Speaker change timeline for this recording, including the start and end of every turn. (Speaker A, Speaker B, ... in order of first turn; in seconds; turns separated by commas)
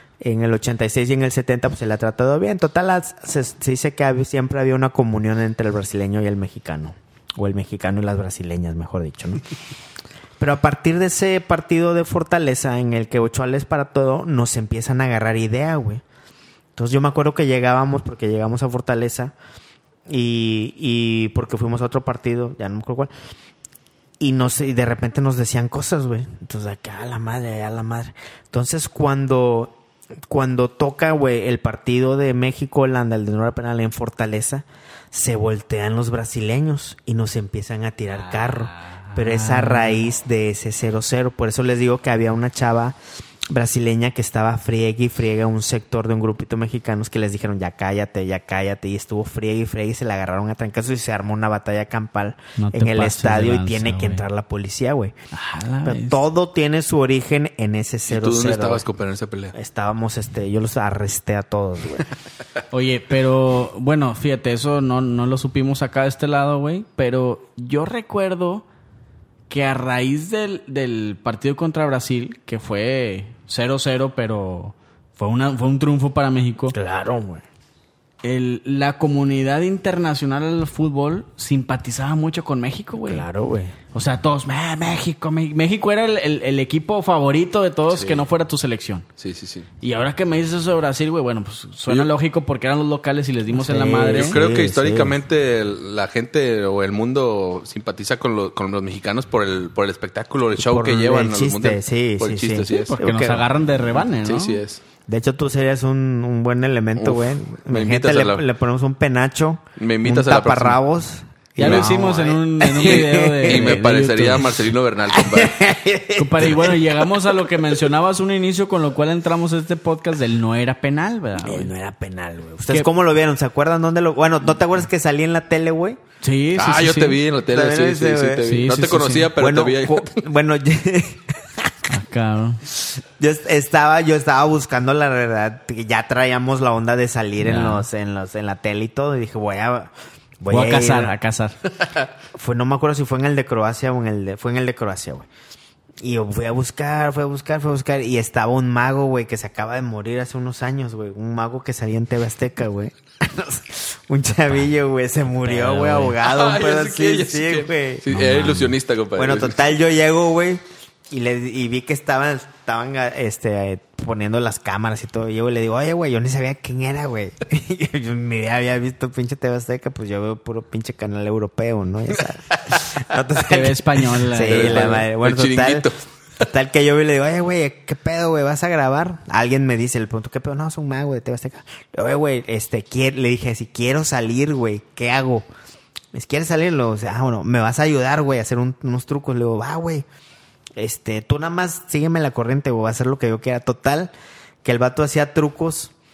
Speaker A: 0.2-9.4, Speaker A: 10.4-16.0, Speaker A: 16.8-19.3, Speaker A: 20.1-23.1, Speaker A: 24.2-43.0, Speaker B: 38.1-40.1, Speaker A: 43.5-55.1, Speaker B: 52.6-54.2, Speaker B: 55.3-56.2, Speaker A: 55.8-58.8, Speaker C: 58.1-59.5, Speaker A: 59.5-62.1, Speaker B: 62.7-68.7, Speaker B: 69.5-76.8, Speaker A: 76.7-77.4, Speaker B: 78.2-83.2, Speaker A: 83.0-83.7, Speaker B: 83.9-89.0, Speaker C: 87.9-88.2, Speaker C: 89.2-89.7, Speaker B: 89.8-94.4, Speaker A: 93.5-95.2, Speaker C: 94.1-103.0, Speaker A: 100.5-103.5, Speaker B: 102.9-104.6, Speaker C: 104.2-104.8, Speaker A: 105.1-113.8, Speaker C: 107.0-108.5, Speaker C: 109.8-110.8, Speaker B: 111.6-114.6, Speaker C: 111.6-111.9, Speaker C: 112.8-115.7, Speaker A: 115.1-116.9, Speaker B: 116.2-121.7, Speaker A: 121.4-126.0, Speaker B: 126.2-127.2, Speaker C: 126.5-130.2, Speaker A: 127.5-128.5, Speaker B: 128.4-129.3, Speaker A: 129.3-131.7, Speaker B: 131.9-132.6, Speaker A: 132.7-141.1, Speaker B: 137.4-137.8, Speaker B: 140.5-141.6, Speaker A: 142.3-145.3, Speaker A: 146.0-158.1, Speaker B: 155.4-156.2, Speaker C: 156.2-159.6, Speaker B: 158.1-158.7, Speaker A: 159.2-175.9, Speaker B: 173.3-175.0, Speaker C: 174.5-176.0, Speaker A: 176.4-185.5, Speaker A: 186.1-190.1, Speaker A: 190.8-194.1, Speaker A: 194.6-195.9